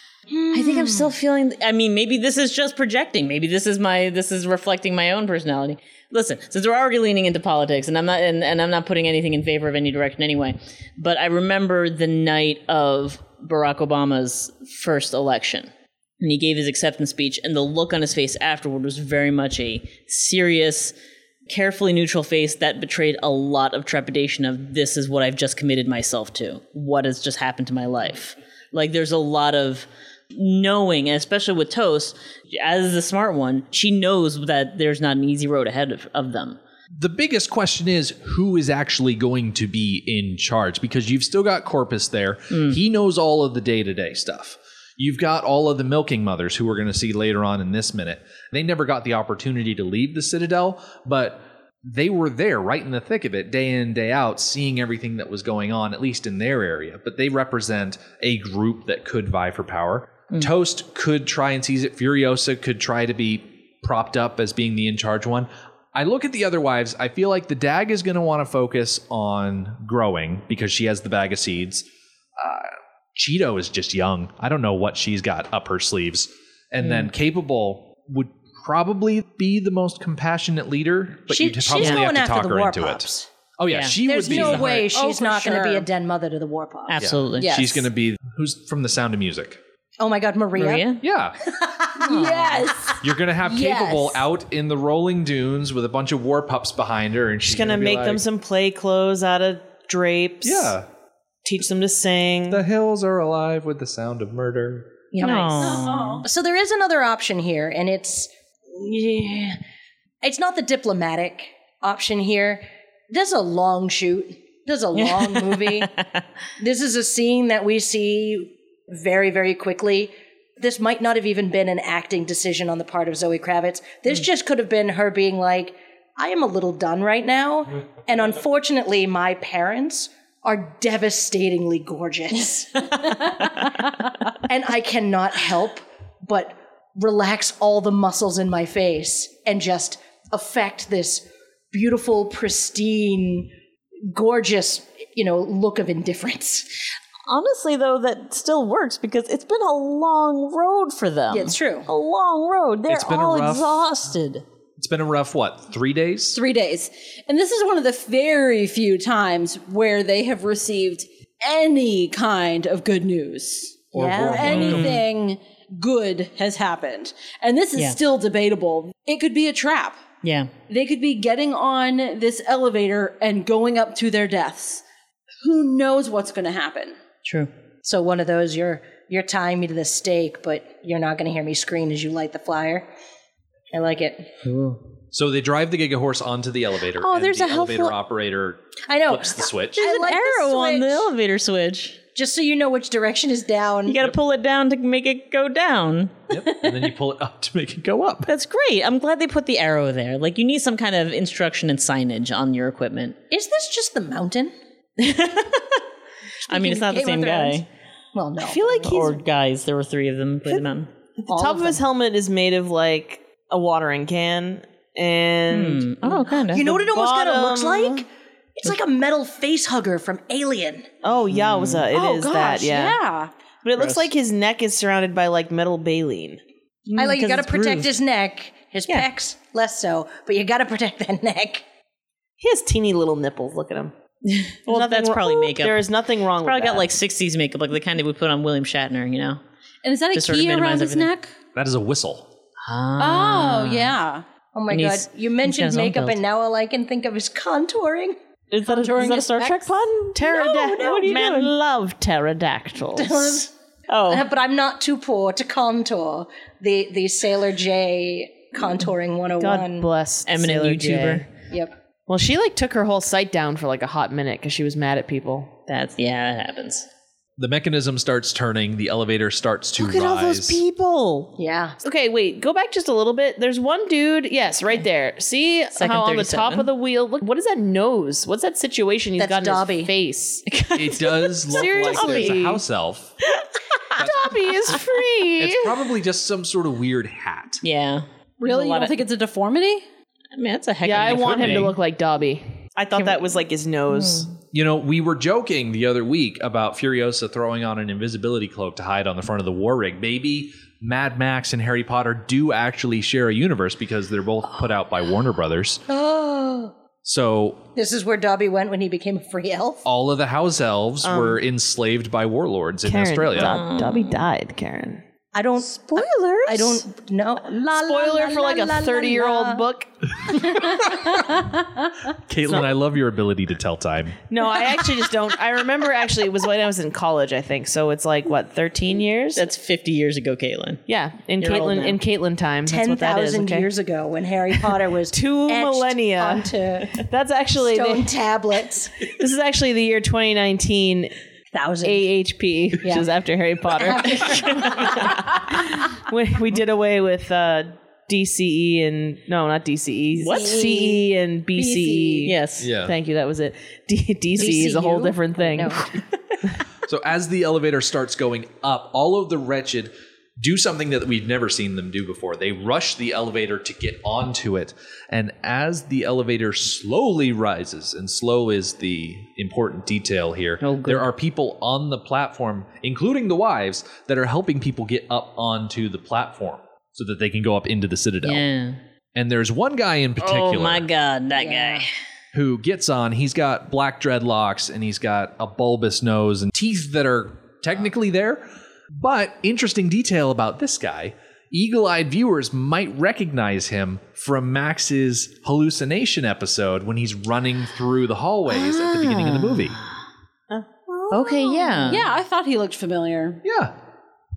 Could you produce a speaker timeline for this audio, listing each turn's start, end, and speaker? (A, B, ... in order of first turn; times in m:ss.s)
0:00.3-0:01.1 A
0:00.5-0:20.9 B
0:21.5-0:36.6 B
0:37.0-1:11.8 C
0:42.5-0:42.8 B
1:12.4-1:24.9 C
1:16.8-1:17.1 B
1:21.3-1:23.3 A
1:21.8-1:22.1 B
1:23.7-1:24.7 B
1:24.0-1:27.0 A
1:24.7-1:25.9 D
1:26.9-1:27.6 B
1:27.0-1:29.6 C
1:27.4-1:27.8 D
1:30.0-1:30.9 A
1:30.6-1:31.0 B
1:31.0-1:31.4 C
1:31.4-1:32.4 A
1:32.0-1:34.2 D
1:32.1-1:32.7 B
1:33.0-1:38.2 C
1:37.4-1:40.7 E
1:40.4-1:40.8 C
1:41.4-1:42.6 E
1:42.5-1:45.0 C
1:45.1-1:49.6 A
1:45.2-1:46.2 B
1:45.6-1:46.2 D
1:50.2-1:55.9 A
1:55.0-1:56.2 B
1:56.6-2:13.6 A
2:14.4-2:23.5 A
2:24.1-2:26.7 A
2:27.3-2:34.4 B
2:31.3-2:31.9 A
2:32.9-2:33.9 C
2:34.8-2:36.4 C
2:36.3-2:50.0 D
2:43.9-2:45.0 C
2:44.0-2:44.5 A
2:44.4-2:45.0 B
2:50.2-2:50.5 B
2:50.7-2:54.8 D
2:55.4-2:57.0 D
2:57.2-2:57.5 B
2:57.8-3:02.8 A
3:03.7-3:04.3 A
3:04.4-3:04.8 B
3:05.1-3:09.8 C
3:07.0-3:07.9 B
3:08.9-3:11.1 A
3:09.8-3:12.0 B
3:12.1-3:14.0 A
3:13.8-3:16.3 B
3:16.3-3:18.3 C
3:18.2-3:23.2 B
3:23.3-3:24.5 A
3:25.0-3:25.8 B
3:26.5-3:27.7 B
3:26.5-3:29.2 A
3:28.4-3:30.9 B
3:31.2-3:38.0 E
3:31.3-3:31.8 A
3:35.5-3:36.7 B
3:36.5-3:40.9 A
3:41.0-3:43.0 E
3:41.3-3:41.8 B
3:41.9-3:43.3 D
3:43.6-3:46.4 E
3:43.8-3:44.1 B
3:46.9-3:47.9 B
3:47.0-3:51.6 A
3:52.4-3:53.9 E
3:54.2-3:55.8 B
3:54.7-3:56.9 E
3:56.4-3:59.4 B
3:59.8-4:01.3 D
4:00.1-4:01.1 B
4:01.5-4:02.3 C
4:02.6-4:03.9 B
4:03.0-4:04.2 D
4:04.5-4:08.2 A
4:04.7-4:06.2 B
4:08.5-4:11.5 B
4:08.7-4:09.7 D
4:10.1-4:13.4 E
4:10.3-4:11.0 A
4:12.9-4:13.5 A
4:13.9-4:14.2 B
4:14.1-4:19.9 A
4:19.4-4:21.3 E
4:20.2-4:21.3 B
4:22.1-4:25.5 E
4:25.7-4:26.9 B
4:27.4-4:30.6 C
4:29.8-4:40.4 E
4:31.4-4:31.8 A
4:35.7-4:36.7 B
4:39.2-4:39.9 A
4:40.5-4:42.4 B
4:40.7-4:43.1 C
4:41.5-4:42.6 E
4:43.9-4:45.9 E
4:44.0-4:44.7 C
4:45.4-4:47.6 C
4:47.6-4:49.0 B
4:48.4-4:49.8 D
4:50.3-4:51.7 B
4:50.8-4:54.3 E
4:51.0-4:51.7 C
4:52.9-4:53.4 B
4:53.9-4:54.3 B
4:54.5-5:05.8 C
5:05.9-5:06.7 A
5:07.0-5:07.6 C
5:07.7-5:09.8 A
5:09.8-5:13.6 C
5:11.0-5:11.4 E
5:12.8-5:15.0 E
5:13.4-5:14.2 B
5:15.3-5:19.6 A
5:15.9-5:16.8 E
5:17.7-5:19.9 E
5:20.5-5:21.2 A
5:22.3-5:24.2 C
5:24.3-5:29.5 E
5:29.3-5:30.8 B
5:30.9-5:33.7 E
5:31.4-5:32.0 B
5:32.6-5:37.0 A
5:35.1-5:38.2 E
5:37.6-5:39.1 A
5:39.0-5:41.1 E
5:41.5-5:42.0 A
5:41.8-5:55.9 E
5:42.8-5:43.1 A
5:43.7-5:45.2 A
5:44.5-5:45.0 B
5:50.2-5:50.6 B
5:50.3-5:51.0 A
5:51.6-5:52.3 A
5:52.2-5:52.7 B
5:52.6-5:52.9 C
5:54.4-5:55.9 A
5:56.9-6:18.4 C
6:10.6-6:11.1 B
6:18.2-6:18.8 B
6:19.1-6:20.8 C
6:20.2-6:21.9 B
6:21.4-6:21.8 A
6:22.3-6:39.8 C
6:38.5-6:40.0 B
6:40.5-6:42.0 E
6:41.1-6:42.0 B
6:41.9-6:43.4 D
6:43.4-6:43.7 C